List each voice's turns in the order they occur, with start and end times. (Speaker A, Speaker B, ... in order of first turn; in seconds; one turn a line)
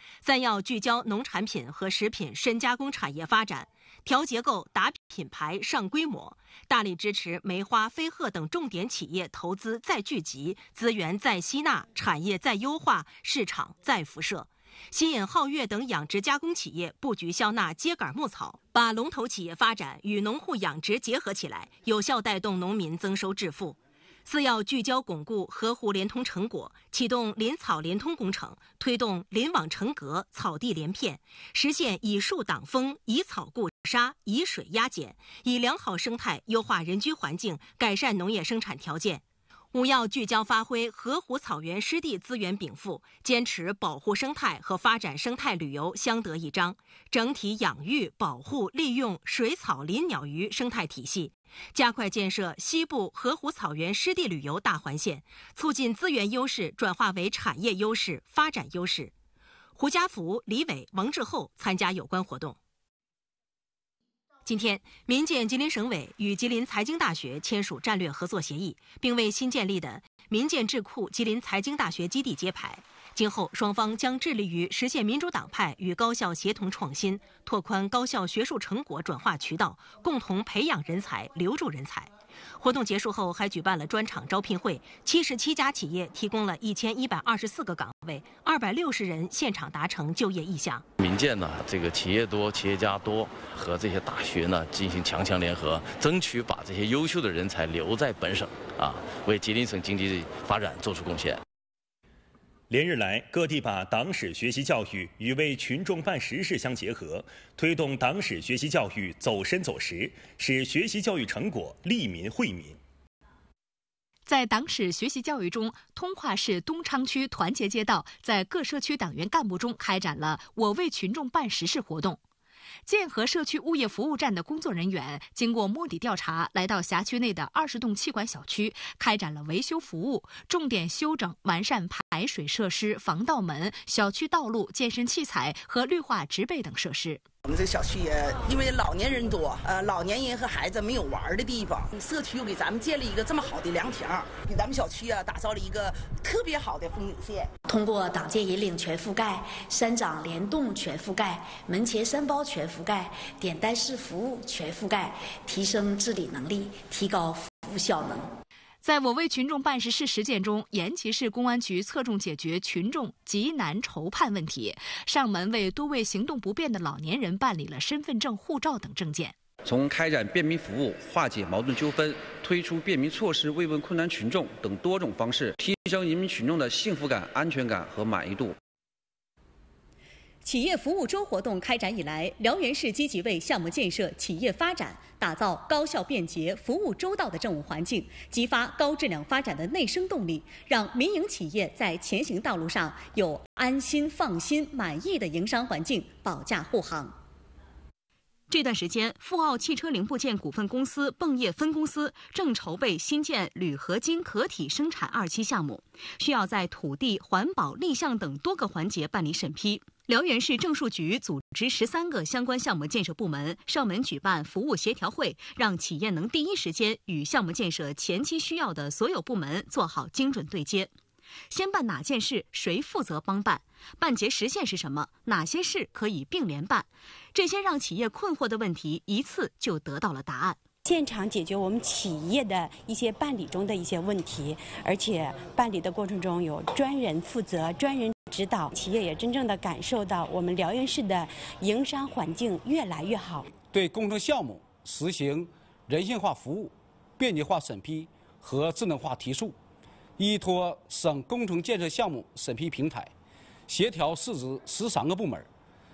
Speaker A: 0.2-59.1
Speaker A: 59.8-62.6
Speaker A: 64.5-90.8
Speaker B: 91.0-101.4
Speaker C: 102.7-112.8
Speaker D: 114.3-122.2
Speaker D: 122.9-137.2
Speaker E: 137.4-147.5
Speaker F: 147.7-158.3
Speaker D: 158.8-169.4
Speaker G: 169.7-178.5
Speaker H: 180.4-197.2
Speaker H: 198.5-220.9
Speaker H: 221.5-230.6
Speaker I: 230.8-243.5
Speaker J: 243.7-249.6
Speaker J: 250.2-253.1
Speaker J: 253.7-255.5